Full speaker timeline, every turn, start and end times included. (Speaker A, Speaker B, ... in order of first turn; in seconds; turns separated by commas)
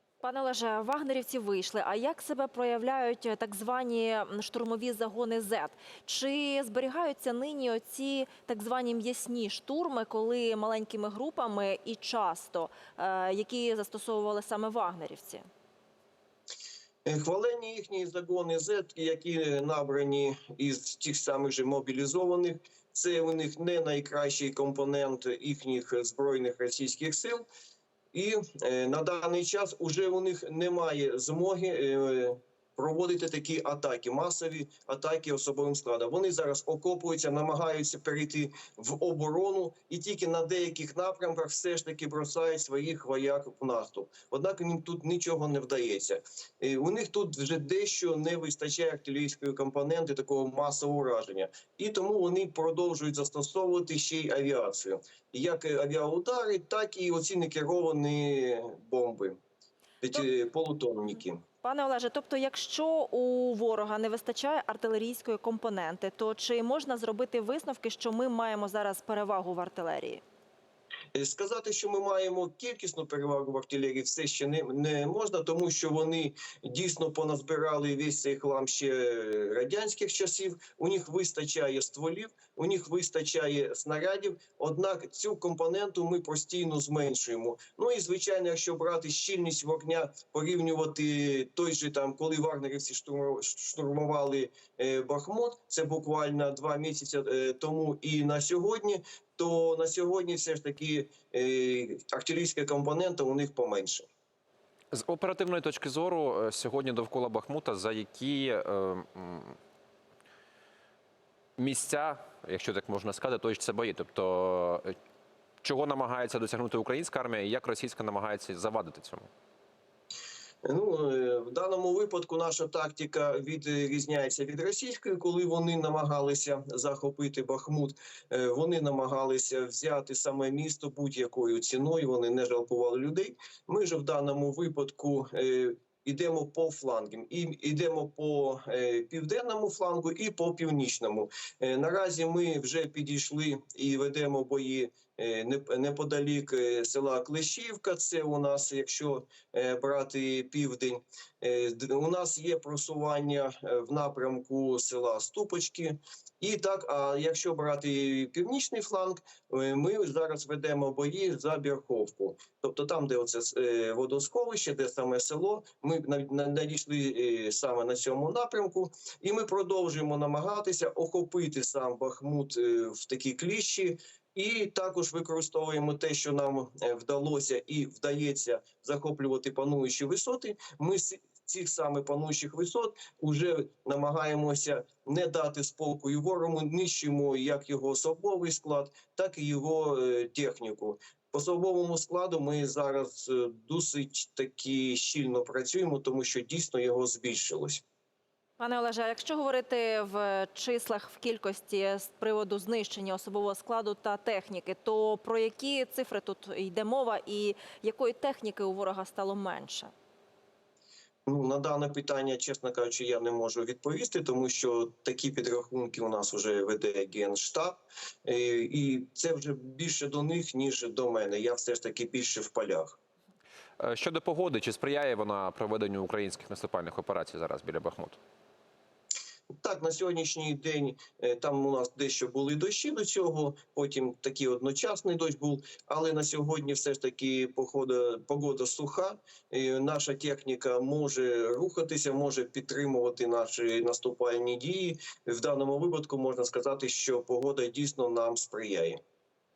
Speaker A: 0.2-15.4, Speaker B: 17.0-27.4, Speaker B: 28.1-59.4, Speaker B: 60.0-61.4, Speaker A: 61.6-70.2, Speaker B: 71.1-104.1, Speaker C: 104.9-109.6, Speaker C: 111.6-114.9, Speaker C: 115.6-119.3, Speaker B: 120.6-197.8, Speaker A: 198.6-209.9, Speaker B: 211.3-223.0, Speaker C: 223.8-228.2, Speaker B: 229.6-249.0